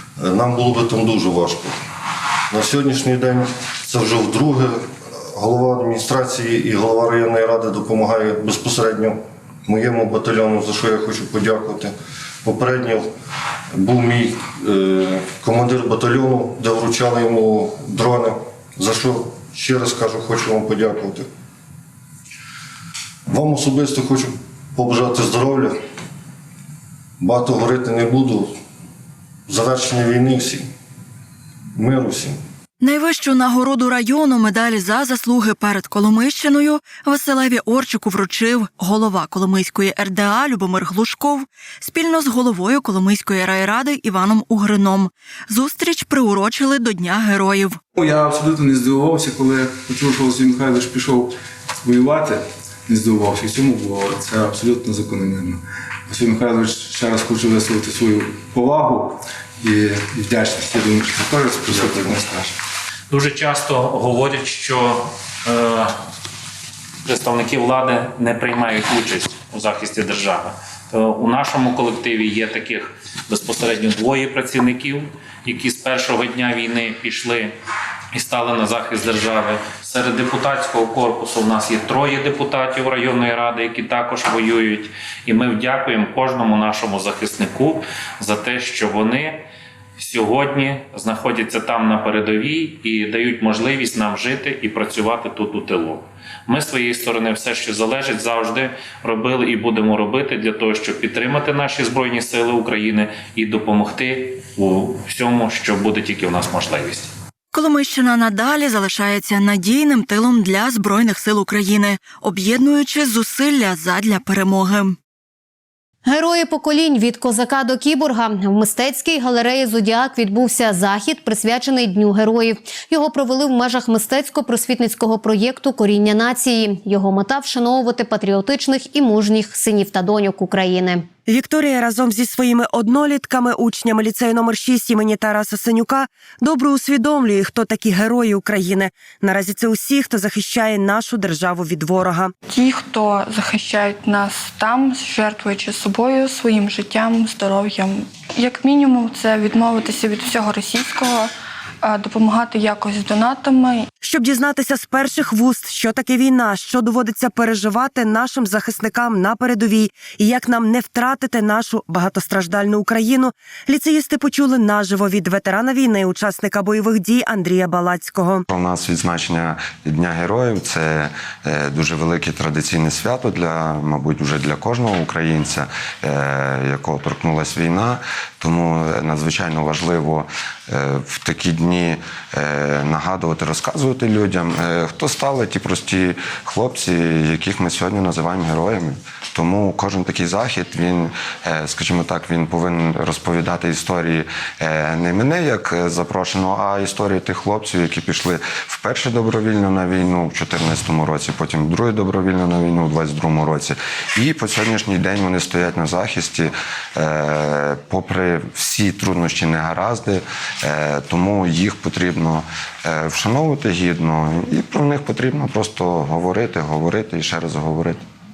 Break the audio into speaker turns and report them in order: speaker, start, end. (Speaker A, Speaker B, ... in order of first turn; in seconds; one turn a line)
Speaker A: 0.2-1.8
Speaker A: 2.5-11.9
Speaker A: 12.4-13.1
Speaker A: 13.7-21.3
Speaker A: 23.3-25.7
Speaker A: 27.2-28.5
Speaker A: 29.5-30.7
Speaker A: 31.7-32.4
Speaker B: 32.8-47.8
Speaker C: 48.0-62.5
Speaker D: 63.1-66.0
Speaker D: 67.0-77.5
Speaker D: 78.1-89.4
Speaker D: 90.0-107.1
Speaker B: 107.5-115.0
Speaker E: 116.0-131.1
Speaker F: 131.3-142.3
Speaker G: 142.5-151.3
Speaker G: 151.8-153.9
Speaker F: 154.0-168.4
Speaker H: 168.5-218.0